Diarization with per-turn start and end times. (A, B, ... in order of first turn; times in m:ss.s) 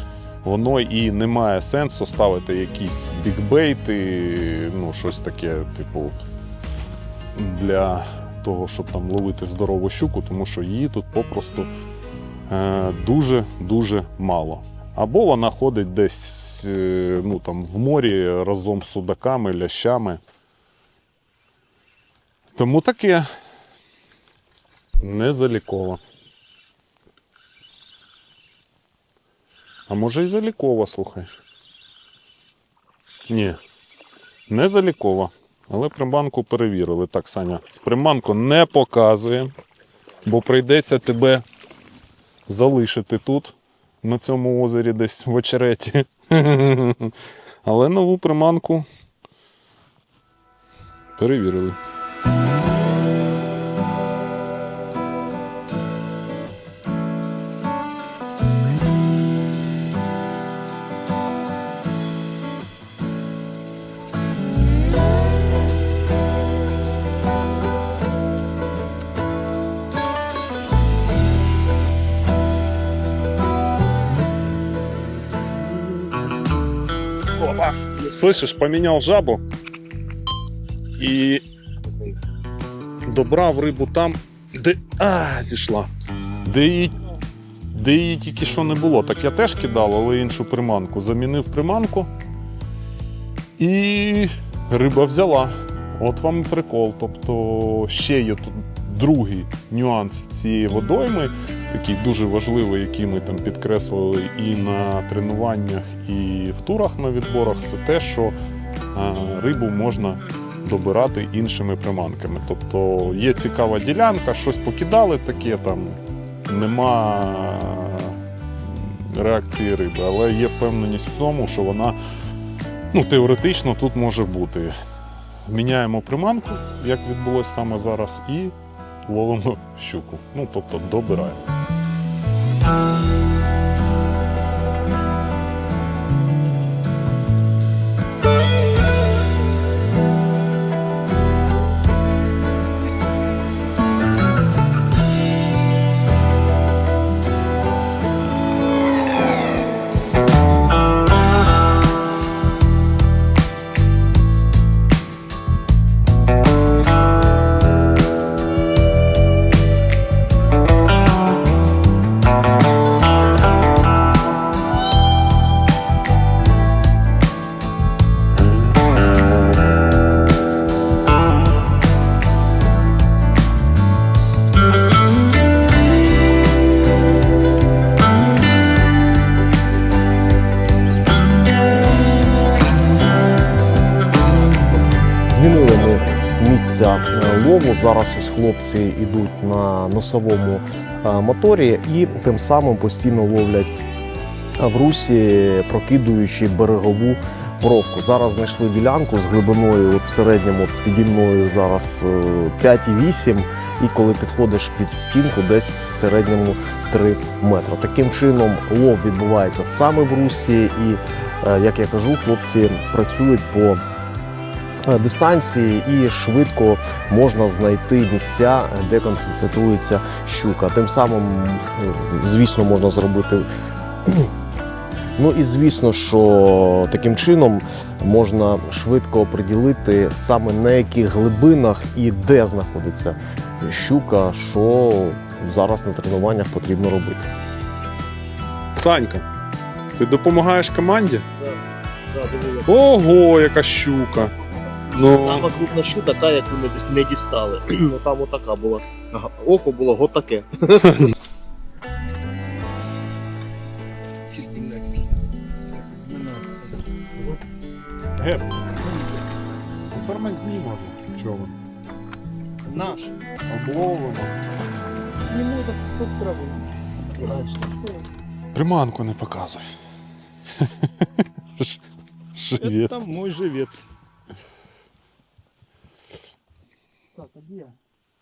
0:00.4-0:06.2 A
0:07.4-0:11.7 A
0:12.5-0:20.2 A
0:22.6-0:23.3 A
0:25.0-0:26.0 A
0:29.9-0:31.3 A
0:33.3-0:33.6 A
0:34.5-0:39.5 A
0:40.2-0:41.4 A
0:42.5-0:48.9 A
0:51.2-0:51.8 A
1:17.3-1:19.4 A
1:21.0-1:21.4 A
1:23.1-1:25.9 A
1:26.4-1:26.9 A
1:27.7-1:32.1 A
1:33.6-1:48.3 A
1:48.9-2:02.0 A
2:02.9-2:04.7 A
2:05.5-2:08.6 A
2:09.1-2:11.4 A
3:05.3-3:13.7 B
3:14.6-3:33.8 B
3:34.9-3:43.5 B
3:44.1-3:44.3 B
3:45.2-3:57.3 B
3:58.8-3:59.3 A
4:00.0-4:01.3 A
4:02.2-4:02.6 C
4:02.6-4:04.3 A
4:04.9-4:05.5 A
4:05.1-4:10.6 C
4:05.9-4:06.3 B
4:08.3-4:09.0 B
4:14.3-4:15.0 D
4:15.7-4:17.4 D
4:18.2-4:18.7 A
4:18.7-4:19.1 D
4:19.9-4:21.6 A
4:22.7-4:23.2 D
4:23.5-4:24.4 A
4:25.2-4:28.0 D
4:28.5-4:29.7 A
4:30.5-4:31.8 A
4:32.4-4:33.1 A
4:32.6-4:33.9 D
4:37.2-4:37.7 D